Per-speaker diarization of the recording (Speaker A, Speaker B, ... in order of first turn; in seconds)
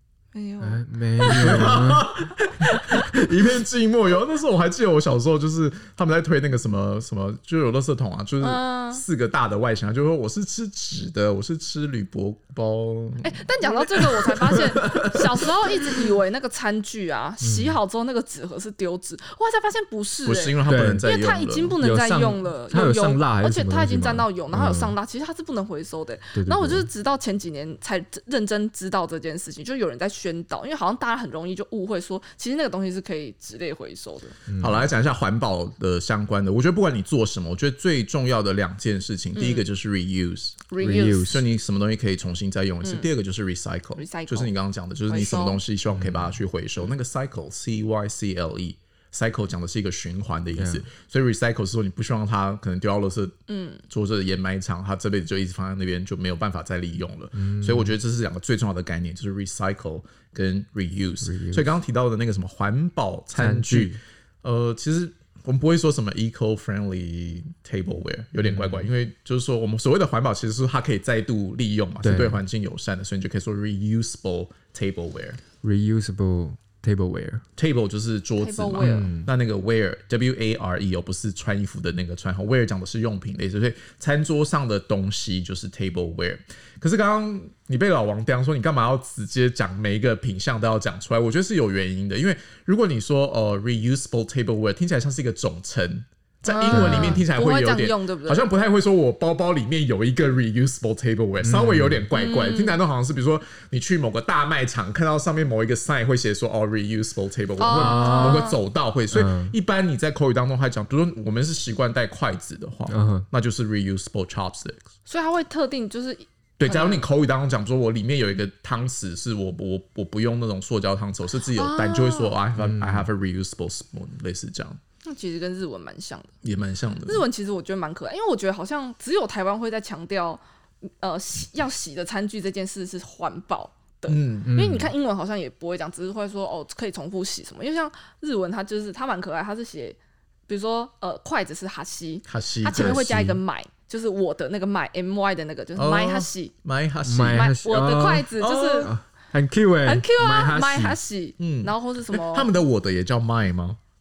Speaker A: 0.3-1.8, 8.4-9.0, 13.2-34.4, 39.4-39.6, 40.7-41.3, 44.0-44.5, 45.1-45.6, 53.5-53.8, 78.4-79.1, 96.4-98.5, 102.1-102.8, 107.6-108.6, 115.1-117.0, 121.5-122.3, 125.0-126.3, 127.0-130.4, 131.0-146.5, 147.3-148.9, 149.8-152.5
Speaker B: 0.6-2.1, 2.9-3.3, 14.3-15.4, 17.4-17.8, 20.6-21.1, 21.8-24.9, 26.3-26.9, 34.5-34.9, 40.8-41.4, 46.0-46.4, 50.6-50.8, 57.4-57.9, 61.2-61.7, 63.3-64.0, 68.4-68.9, 72.0-72.4, 75.6-77.4, 78.8-79.3, 96.7-97.2, 101.4-102.0, 107.7-108.5, 109.1-109.5, 112.9-113.3, 122.6-123.0, 134.4-134.9, 147.0-151.0
Speaker C: 1.2-14.6, 20.2-21.8, 34.6-40.7, 41.2-53.3, 53.9-75.4, 77.6-114.8, 116.6-124.8, 126.4-127.2, 134.1-134.5, 142.3-143.4, 145.8-147.5, 148.3-148.9, 151.4-153.8